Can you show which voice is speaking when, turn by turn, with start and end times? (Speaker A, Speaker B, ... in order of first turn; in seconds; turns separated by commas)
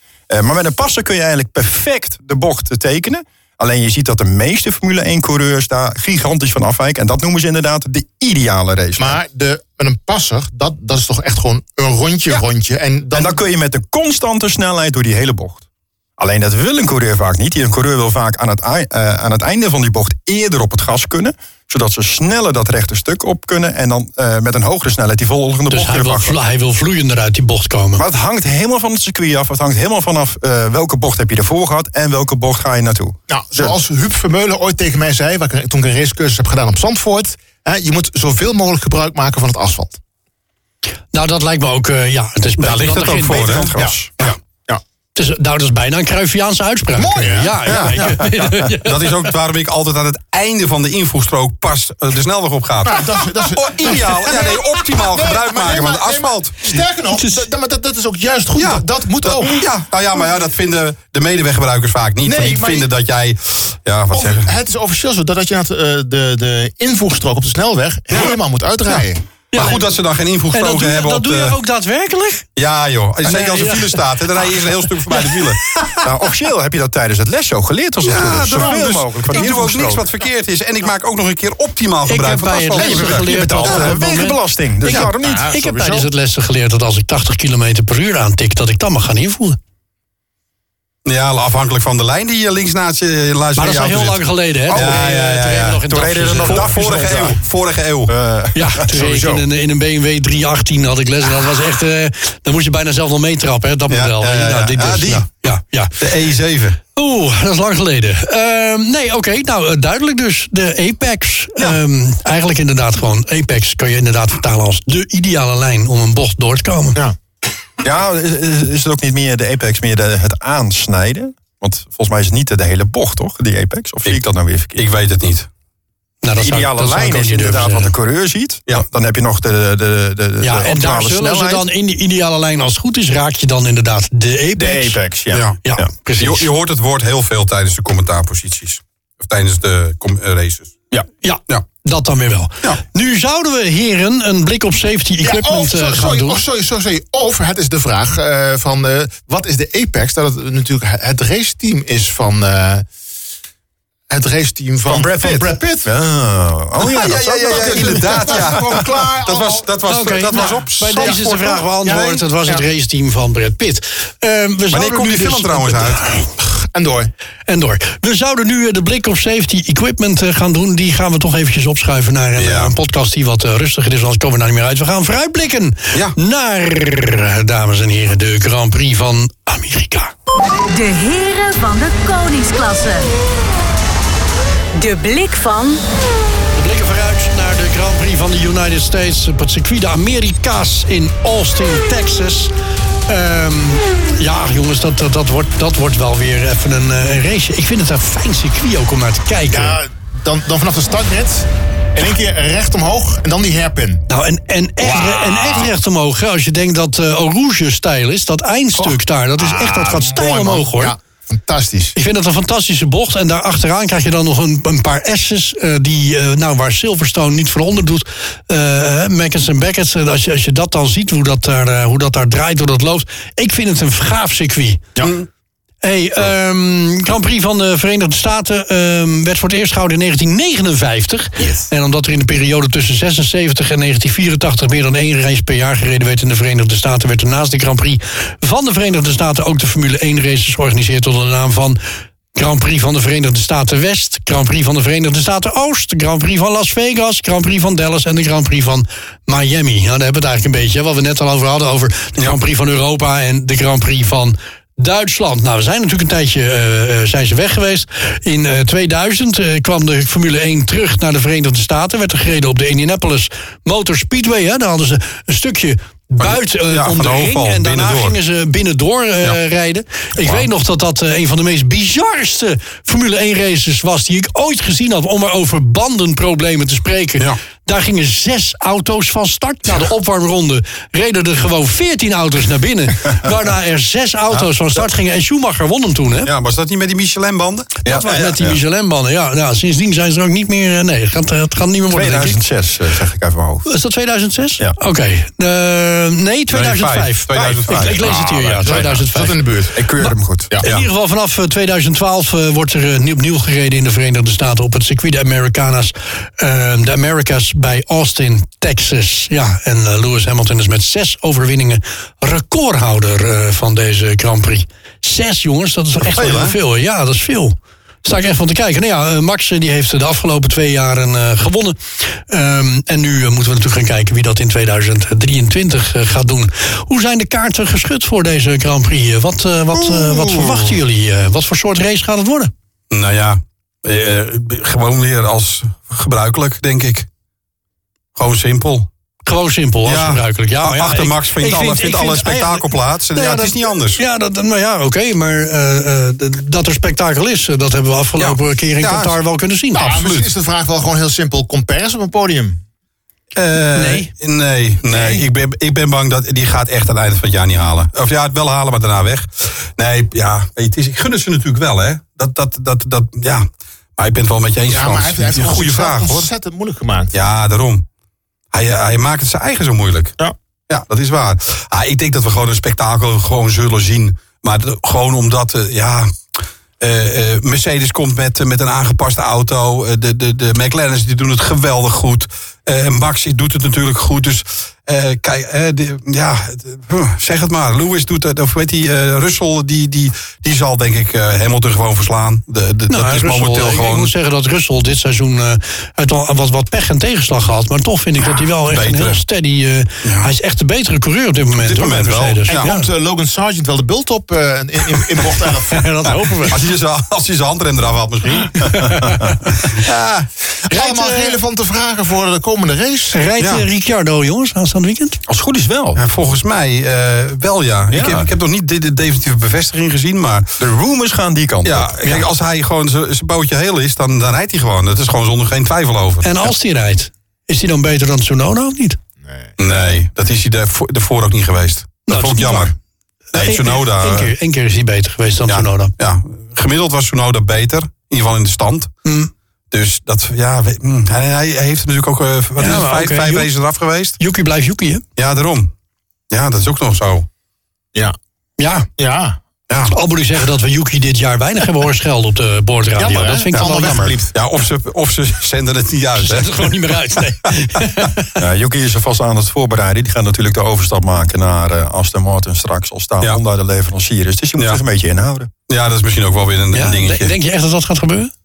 Speaker A: 0.3-9.2, Speaker B: 9.0-13.4, Speaker A: 13.1-15.6, Speaker A: 16.2-26.4, Speaker C: 25.7-28.0, Speaker A: 28.0-33.8, Speaker B: 33.3-40.0, Speaker C: 41.1-43.8, Speaker D: 42.6-44.4, Speaker A: 43.3-44.1, Speaker B: 43.8-44.8, Speaker C: 45.2-49.3, Speaker B: 47.0-48.2, Speaker D: 47.6-56.8, Speaker B: 52.9-59.7, Speaker C: 57.1-57.5, Speaker D: 58.5-64.5, Speaker B: 62.2-62.9, Speaker B: 64.1-69.2, Speaker D: 68.1-68.4, Speaker C: 69.5-69.8, Speaker D: 69.5-71.6, Speaker C: 70.5-72.5, Speaker D: 72.6-75.7, Speaker C: 73.2-76.0, Speaker A: 76.0-80.1, Speaker D: 78.0-84.1, Speaker B: 78.5-78.8, Speaker C: 82.1-89.6, Speaker A: 82.8-85.5, Speaker B: 84.9-86.1, Speaker D: 91.0-98.1, Speaker C: 93.6-96.7, Speaker A: 94.7-95.2, Speaker A: 95.9-97.4, Speaker A: 98.1-99.4, Speaker C: 98.5-106.0, Speaker B: 98.9-99.4, Speaker D: 103.9-105.3, Speaker D: 106.0-106.8, Speaker C: 107.0-117.0, Speaker A: 117.8-124.7, Speaker D: 124.1-125.5, Speaker C: 126.2-127.9, Speaker A: 126.4-131.7, Speaker C: 130.4-135.0, Speaker A: 134.6-135.9, Speaker D: 135.3-135.6, Speaker C: 135.6-136.5, Speaker D: 136.2-140.8, Speaker C: 141.2-146.4, Speaker B: 145.2-152.9, Speaker B: 154.1-155.9, Speaker A: 154.9-158.8, Speaker D: 156.8-162.0, Speaker B: 157.5-159.7, Speaker C: 159.9-166.3, Speaker B: 160.3-161.2, Speaker B: 161.8-162.6, Speaker D: 164.7-166.1, Speaker B: 166.4-167.1, Speaker C: 167.5-180.1, Speaker D: 172.4-172.7, Speaker E: 180.7-183.1, Speaker E: 184.7-185.8, Speaker C: 186.6-192.5, Speaker C: 193.1-199.8, Speaker B: 199.5-204.0, Speaker C: 204.1-210.9, Speaker B: 204.8-205.7, Speaker B: 209.4-211.9, Speaker C: 211.9-224.8, Speaker D: 225.0-225.3, Speaker C: 225.8-241.8, Speaker C: 242.3-286.3, Speaker D: 266.2-268.1, Speaker D: 270.2-270.5, Speaker D: 286.3-288.2, Speaker C: 287.8-292.4, Speaker A: 287.9-288.6, Speaker A: 291.9-293.7, Speaker C: 293.6-332.5, Speaker D: 296.5-299.0, Speaker A: 297.4-298.1, Speaker B: 298.0-299.8, Speaker A: 299.8-300.6, Speaker D: 316.0-316.6, Speaker D: 329.7-330.8, Speaker D: 332.9-337.1, Speaker D: 338.1-338.9, Speaker C: 339.3-350.0, Speaker D: 339.8-344.0, Speaker D: 348.2-349.2, Speaker B: 349.8-352.6, Speaker D: 349.8-350.3, Speaker D: 353.4-366.3, Speaker C: 353.7-354.1, Speaker B: 354.9-355.2, Speaker B: 364.7-367.2, Speaker D: 367.1-367.8, Speaker D: 368.5-370.2, Speaker D: 370.7-394.1, Speaker C: 392.9-402.9, Speaker D: 398.3-399.2, Speaker D: 400.0-400.3, Speaker D: 401.6-402.7, Speaker B: 402.6-405.9, Speaker C: 405.7-406.6, Speaker D: 406.4-409.1, Speaker C: 408.5-409.5, Speaker D: 409.6-410.3, Speaker B: 410.6-413.2, Speaker C: 410.7-411.4, Speaker C: 413.1-415.2, Speaker D: 413.4-413.6, Speaker A: 415.3-416.0, Speaker D: 416.0-420.6, Speaker A: 417.9-418.3, Speaker A: 420.6-422.0, Speaker D: 421.6-426.5, Speaker C: 426.2-429.0, Speaker B: 429.2-430.0, Speaker D: 429.6-432.7, Speaker C: 432.1-432.7, Speaker D: 433.3-434.3, Speaker C: 433.3-435.9, Speaker D: 435.5-438.9, Speaker C: 439.1-439.3, Speaker D: 439.7-444.2, Speaker C: 442.6-443.5, Speaker C: 444.2-445.0, Speaker D: 445.2-445.7, Speaker D: 446.3-447.3, Speaker C: 448.6-448.9, Speaker B: 449.0-449.4, Speaker C: 449.9-454.2, Speaker B: 453.0-454.3, Speaker D: 453.5-456.8, Speaker C: 456.2-458.4, Speaker A: 458.4-465.5, Speaker D: 465.7-467.3, Speaker C: 466.7-468.3